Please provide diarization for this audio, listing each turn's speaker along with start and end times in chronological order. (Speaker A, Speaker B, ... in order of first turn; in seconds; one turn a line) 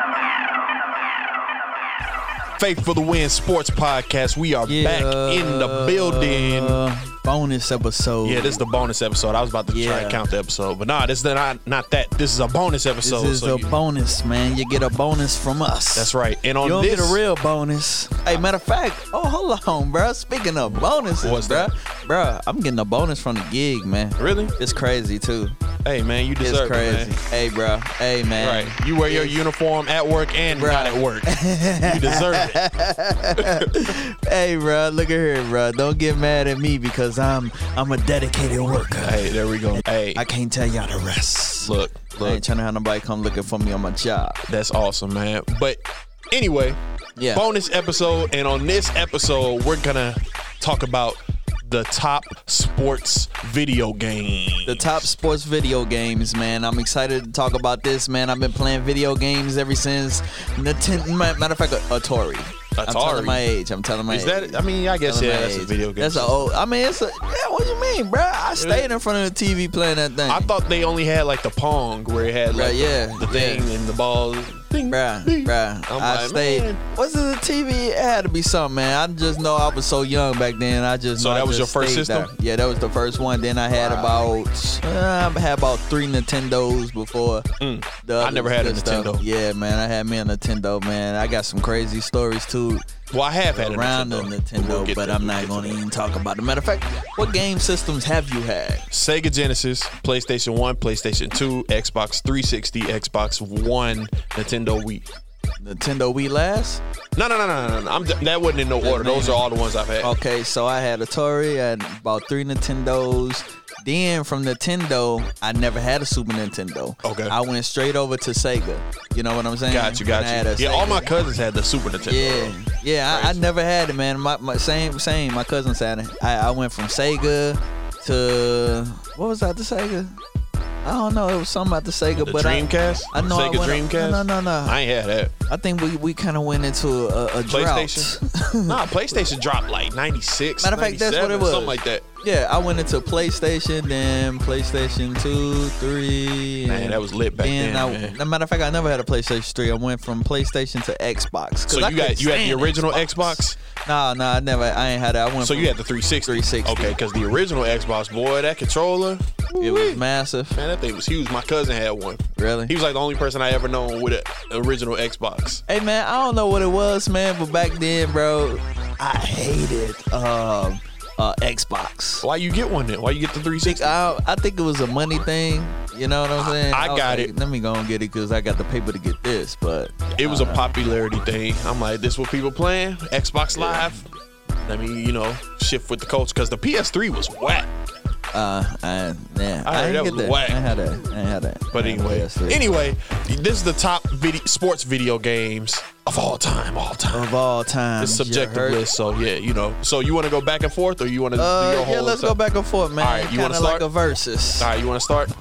Speaker A: 2.6-6.8
Speaker B: 4.7-8.6
Speaker A: 8.2-13.8
Speaker B: 9.7-10.2
Speaker B: 13.0-25.6
Speaker A: 15.9-17.2
Speaker A: 21.2-21.7
Speaker A: 24.2-24.5
Speaker A: 25.8-27.1
Speaker B: 26.4-29.4
Speaker A: 28.4-32.6
Speaker B: 30.6-44.4
Speaker A: 33.4-34.0
Speaker A: 39.0-40.2
Speaker A: 41.6-42.4
Speaker A: 44.5-46.8
Speaker B: 47.2-47.4
Speaker A: 47.3-55.1
Speaker B: 54.7-70.5
Speaker A: 62.8-63.4
Speaker A: 64.1-66.5
Speaker A: 68.6-68.9
Speaker A: 70.3-76.8
Speaker B: 72.5-73.7
Speaker B: 74.9-87.5
Speaker A: 81.2-82.3
Speaker A: 83.7-84.2
Speaker A: 87.6-89.2
Speaker B: 88.0-92.9
Speaker A: 93.1-95.8
Speaker B: 93.5-98.9
Speaker A: 98.9-105.1
Speaker B: 105.6-106.8
Speaker A: 107.2-110.1
Speaker B: 108.8-109.4
Speaker B: 110.0-121.1
Speaker A: 117.0-117.3
Speaker A: 119.7-122.6
Speaker B: 122.1-130.2
Speaker A: 123.1-123.5
Speaker B: 130.8-134.8
Speaker A: 132.2-135.3
Speaker B: 135.5-139.2
Speaker A: 137.5-138.1
Speaker A: 138.7-142.1
Speaker B: 140.6-157.0
Speaker A: 146.7-148.2
Speaker A: 151.7-153.6
Speaker A: 155.4-160.0
Speaker B: 159.6-160.6
Speaker A: 160.5-165.6
Speaker B: 162.4-162.7
Speaker B: 165.7-172.3
Speaker A: 172.2-174.0
Speaker B: 173.7-180.6
Speaker A: 176.4-177.3
Speaker A: 180.1-184.1
Speaker B: 183.5-184.0
Speaker A: 184.6-187.7
Speaker B: 188.3-192.6
Speaker A: 189.7-190.6
Speaker A: 191.7-197.3
Speaker B: 197.1-198.8
Speaker A: 198.0-202.4
Speaker B: 201.4-204.7
Speaker A: 203.0-203.9
Speaker A: 204.6-205.3